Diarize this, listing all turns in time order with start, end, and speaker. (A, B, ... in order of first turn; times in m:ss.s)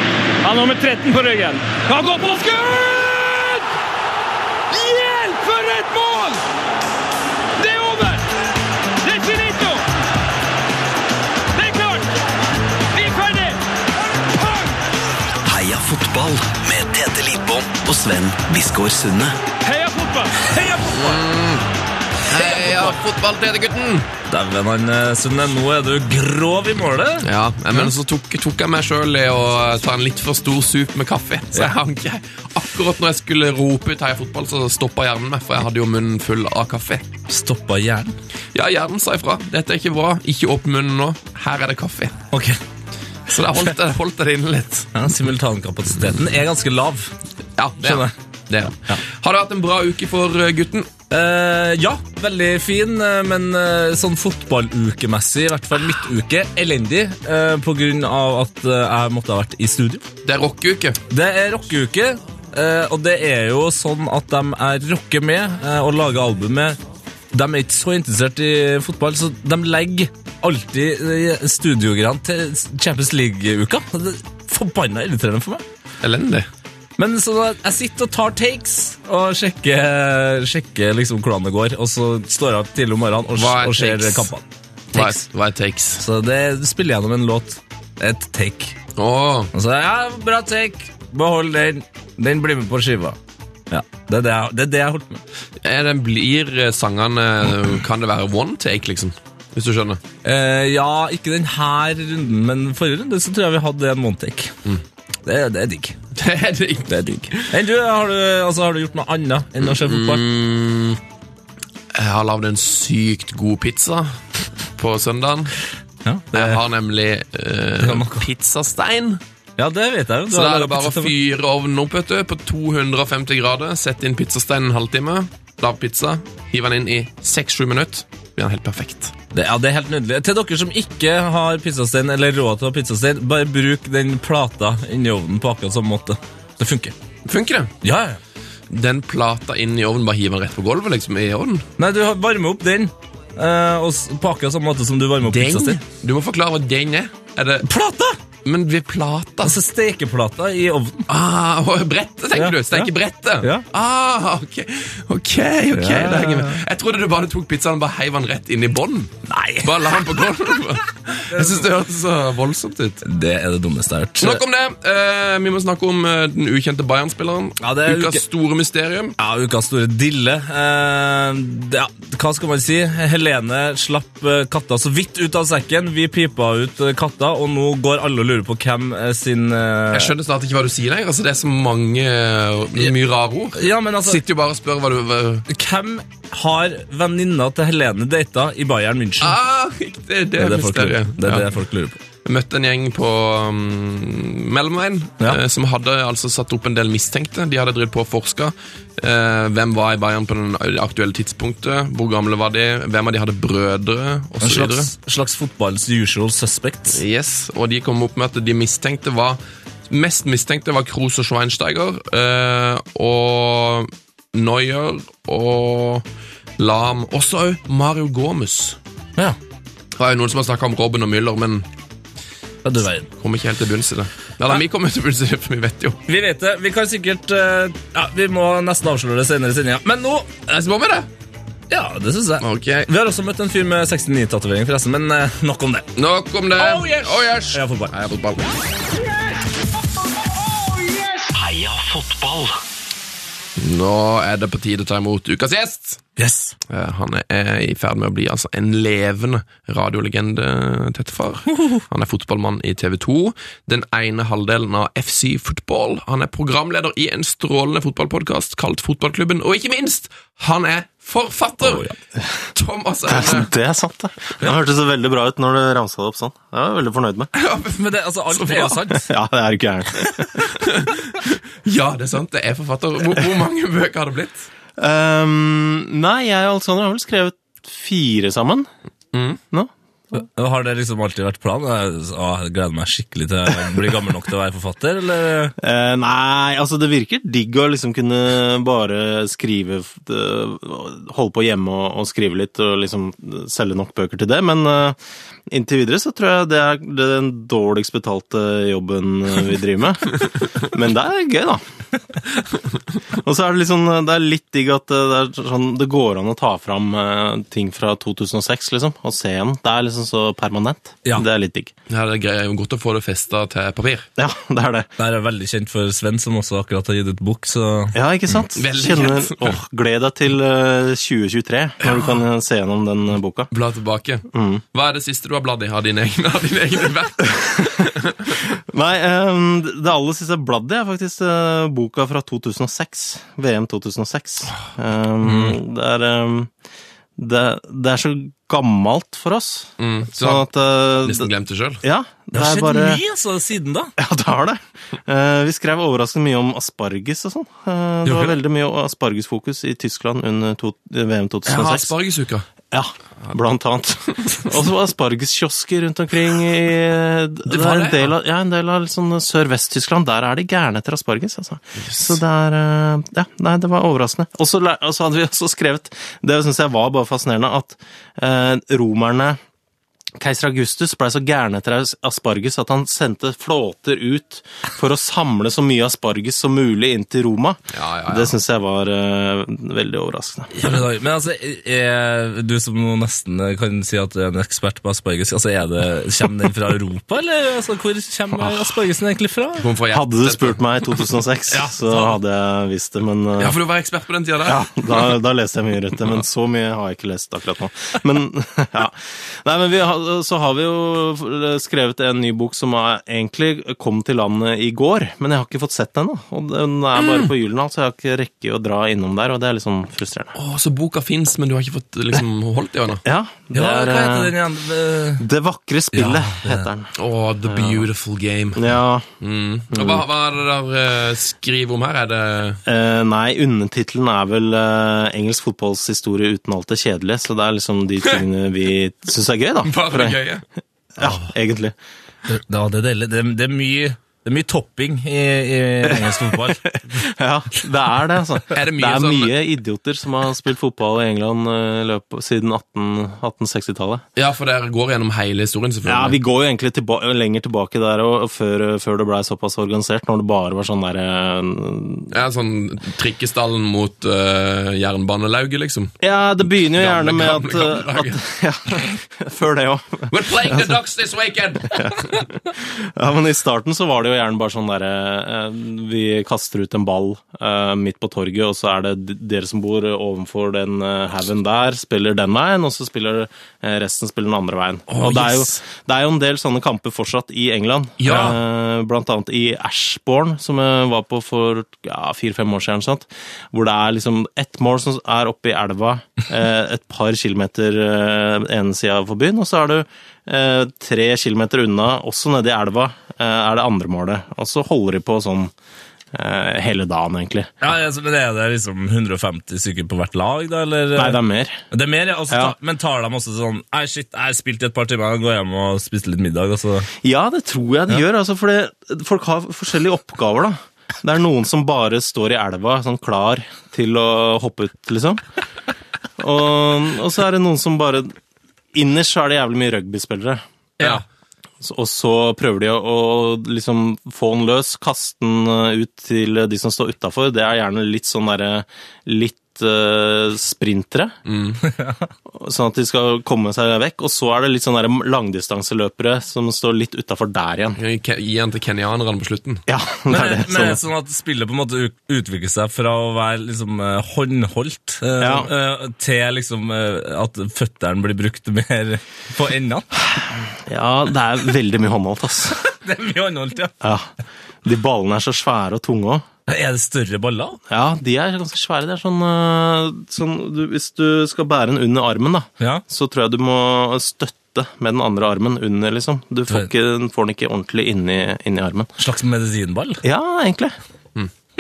0:00.4-0:03.6 A
0:04.7-0:06.4 A
0:07.6-0:08.2 A
0:09.0-0:09.8 A
0:11.5-0:12.1 A
0:12.9-0:13.6 A
0:14.2-0:14.8 A
0:15.4-0:19.4 B
0:19.6-0:20.6 A
0:20.5-0:21.1 C
0:20.9-0:21.7 D
0:22.3-0:24.1 D
0:24.3-0:27.3 C
0:27.2-0:37.1 D
0:37.3-0:38.2 C
0:38.5-0:42.2 D
0:42.3-0:42.6 C
0:43.3-0:44.9 D
0:45.0-0:47.1 C
0:47.6-0:50.9 D
0:47.8-0:48.1 C
0:51.1-1:00.0 C
1:00.2-1:01.0 D
1:01.1-1:06.8 C
1:07.3-1:15.6 C
1:16.0-1:16.5 D
1:17.0-1:25.2 C
1:23.4-1:24.3 D
1:24.9-1:26.0 D
1:26.0-1:28.8 C
1:29.0-1:29.5 D
1:29.5-1:33.2 C
1:33.7-1:35.2 C
1:35.6-1:40.0 D
1:40.2-1:44.5 C
1:45.2-1:46.0 C
1:46.2-1:47.5 D
1:46.9-1:50.2 C
1:49.6-1:51.0 D
1:51.9-1:54.2 D
1:54.8-1:55.6 D
1:56.0-1:56.6 C
1:56.3-1:59.2 D
1:57.8-1:58.3 C
1:59.6-2:01.1 C
2:00.3-2:09.1 D
2:09.3-2:17.0 C
2:17.3-2:17.7 D
2:17.8-2:18.2 C
2:18.7-2:21.7 D
2:21.8-2:25.8 C
2:25.3-2:27.7 D
2:27.7-2:28.2 C
2:28.4-2:29.6 D
2:29.4-2:31.1 C
2:31.1-2:43.0 D
2:32.3-2:33.7 C
2:35.7-2:36.6 C
2:39.3-2:40.6 C
2:41.1-2:41.7 C
2:43.0-2:44.4 C
2:44.2-2:49.2 D
2:47.6-2:48.2 C
2:49.2-3:00.1 C
2:59.9-3:05.5 D
3:03.6-3:04.2 C
3:05.5-3:09.4 C
3:09.2-3:11.5 D
3:10.4-3:12.0 C
3:12.2-3:24.9 D
3:24.4-3:27.0 C
3:26.9-3:36.0 D
3:36.6-3:38.8 D
3:40.0-3:41.7 D
3:42.6-3:43.1 C
3:43.2-3:46.0 D
3:46.1-3:50.3 C
3:50.5-3:51.1 D
3:51.7-3:55.9 C
3:52.4-3:52.9 D
3:56.0-3:58.4 D
3:56.6-3:57.9 C
3:59.1-3:59.4 A
4:00.5-4:01.3 A
4:01.3-4:02.6 B
4:03.6-4:06.0 D
4:06.2-4:06.6 C
4:06.7-4:21.9 D
4:21.6-4:21.9 C
4:22.5-4:23.5 D
4:23.1-4:27.3 E
4:27.4-4:28.8 D
4:27.7-4:29.1 C
4:28.9-4:30.4 E
4:30.5-4:34.5 D
4:34.8-4:38.7 E
4:39.1-4:39.4 D
4:40.1-4:45.6 C
4:45.6-5:01.6 E
5:03.1-5:11.7 E
5:11.9-5:14.1 D
5:14.2-5:14.9 E
5:15.0-5:18.0 C
5:17.9-5:23.5 E
5:18.6-5:19.6 D
5:23.5-5:28.5 D
5:24.3-5:24.6 E
5:27.4-5:27.8 E
5:28.5-5:36.5 E
5:35.2-5:35.6 C
5:37.2-5:41.3 E
5:39.8-5:41.8 D
5:41.8-5:43.0 E
5:42.3-5:43.9 C
5:44.0-5:52.0 E
5:48.0-5:48.3 C
5:51.5-5:52.5 D
5:52.7-6:09.4 E
5:57.5-5:58.2 D
6:01.8-6:02.2 D
6:10.2-6:20.5 E
6:17.7-6:18.3 D
6:20.5-6:29.6 C
6:29.6-6:31.2 D
6:29.9-6:33.6 E
6:33.4-6:35.2 D
6:34.4-6:50.3 E
6:47.0-6:47.3 D
6:50.4-6:53.0 D
6:53.0-6:54.4 E
6:53.5-6:55.3 C
6:55.2-6:56.9 E
6:55.9-6:56.7 C
6:57.0-6:58.7 D
6:57.5-6:57.9 E
6:58.6-6:59.1 E
6:59.2-7:02.6 D
6:59.7-7:00.0 E
7:02.7-7:10.2 E
7:09.6-7:10.4 D
7:11.0-7:11.8 E
7:11.0-7:11.3 C
7:12.3-7:17.0 C
7:16.9-7:24.0 E
7:18.5-7:19.4 D
7:24.2-7:26.2 D
7:25.8-7:32.1 E
7:32.1-7:35.9 D
7:36.0-7:40.8 E
7:36.6-7:38.2 D
7:40.1-7:42.2 D
7:41.7-8:15.5 E
7:54.9-7:55.6 D
7:58.0-7:58.4 D
8:16.1-8:17.5 E
8:17.6-8:26.9 C
8:21.0-8:21.6 E
8:22.3-8:22.6 E
8:27.0-8:35.2 E
8:36.2-8:38.2 E
8:38.7-8:41.0 E
8:41.6-8:51.1 E
8:51.3-8:51.6 D
8:51.7-8:52.1 C
8:52.3-8:57.8 E
8:57.8-8:59.6 D
8:59.7-9:00.8 E
9:00.1-9:09.9 C
9:05.2-9:05.5 E
9:10.7-9:12.6 E
9:12.5-9:13.8 C
9:13.8-9:14.1 E
9:14.6-9:16.3 E
9:16.5-9:17.6 C
9:17.7-9:28.9 E
9:29.0-9:30.0 C
9:30.0-9:30.8 E